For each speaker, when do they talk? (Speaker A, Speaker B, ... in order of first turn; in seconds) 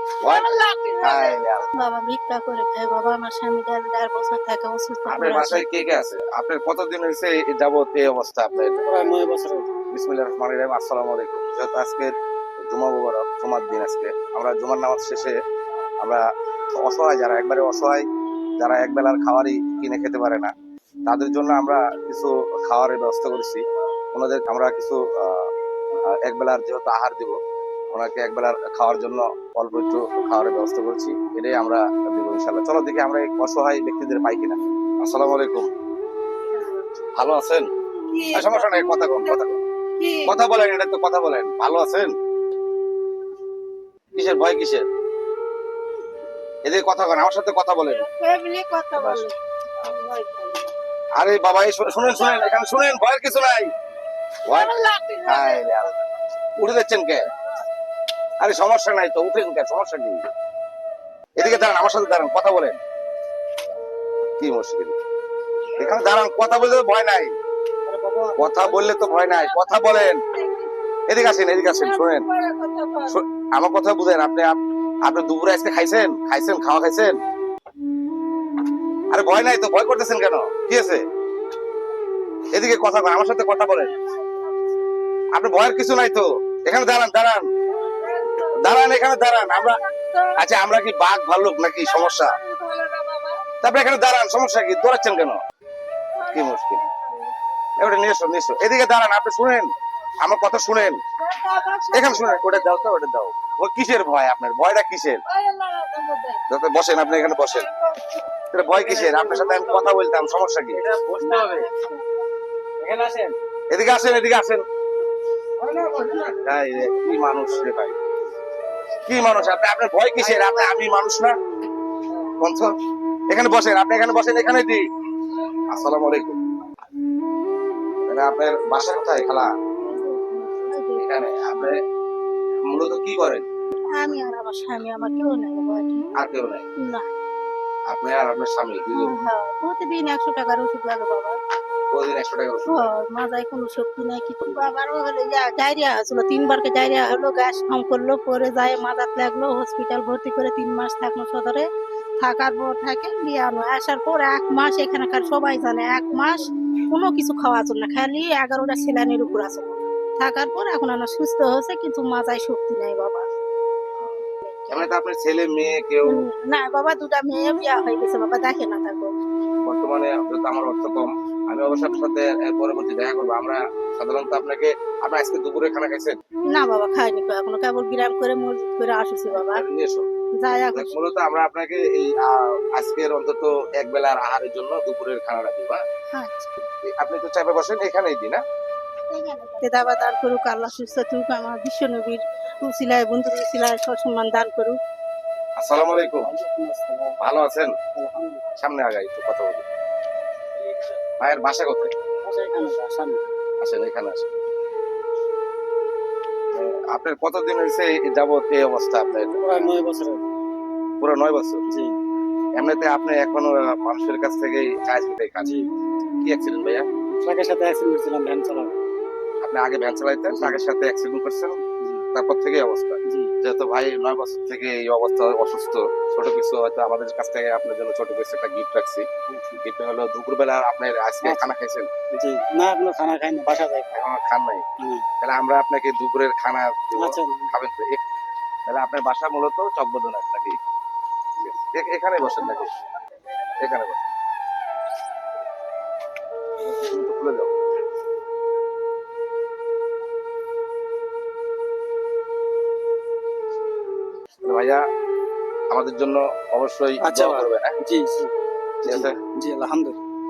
Speaker A: 0.2-0.5, 1.0-1.7, 5.1-8.8, 9.9-12.1, 12.7-15.4, 16.8-18.1, 18.6-20.5, 21.1-23.6, 24.1-25.5, 26.2-27.4, 27.9-35.7, 37.2-37.7, 38.3-39.6, 40.3-42.1, 44.1-44.9, 46.6-48.0, 49.0-49.2, 51.2-53.7, 54.5-54.7, 55.2-56.0, 56.6-57.2, 58.4-60.2, 61.4-62.8, 64.4-65.0, 65.8-67.3, 68.4-70.2, 71.1-72.3, 73.1-77.2, 79.1-81.0, 82.5-83.9, 85.3-87.5, 88.5-89.8, 90.4-92.3, 93.6-95.4, 96.3-96.8, 97.8-101.0, 101.9-105.2, 106.5-107.7, 108.5-110.8, 113.7-114.6, 116.2-118.0, 119.1-121.3, 122.4-122.7, 123.3-124.8, 125.7-126.4, 128.1-129.5, 131.0-131.8, 132.7-133.4, 136.2-136.7, 137.9-139.1, 141.9-142.9, 164.7-166.2, 169.7-176.2, 179.3-180.1, 180.7-185.8, 187.0-188.4, 195.6-196.2, 197.2-197.7, 198.6-199.7, 201.2-201.9, 203.6-204.3, 206.5-209.7, 211.0-211.6, 212.6-215.5, 216.2-216.8, 219.4-221.6, 222.1-229.1, 229.6-231.9, 233.9-234.6, 235.2-238.0, 238.7-240.6, 241.4-242.7, 243.6-244.0, 246.7-247.5, 254.4-254.8, 255.7-257.7, 258.9-259.2
Speaker B: 0.2-5.8, 38.1-39.4, 40.0-40.3, 47.9-50.7, 52.1-52.5, 54.5-55.7, 61.4-61.9, 66.0-66.5, 69.0-70.7, 71.6-73.1, 87.9-88.8, 89.3-90.4, 91.9-93.4, 96.2-97.3, 101.2-102.6, 105.3-106.4, 111.2-111.9, 129.8-131.0, 133.9-136.1, 136.8-137.1, 138.9-141.4, 142.7-151.7, 152.2-163.2, 164.5-164.9, 166.1-169.1, 176.5-179.6, 180.4-181.0, 186.1-186.6, 189.1-194.8
Speaker C: 8.8-9.7, 67.9-69.0, 108.7-109.9, 110.8-111.7, 112.8-113.4, 115.6-116.2, 196.3-197.2, 198.0-198.4, 202.2-203.2, 209.4-210.3, 211.7-212.0, 215.4-215.7, 217.2-218.8, 220.3-220.6, 229.3-229.6, 232.2-234.0, 234.8-235.1, 237.0-237.5, 257.0-258.3, 258.9-260.0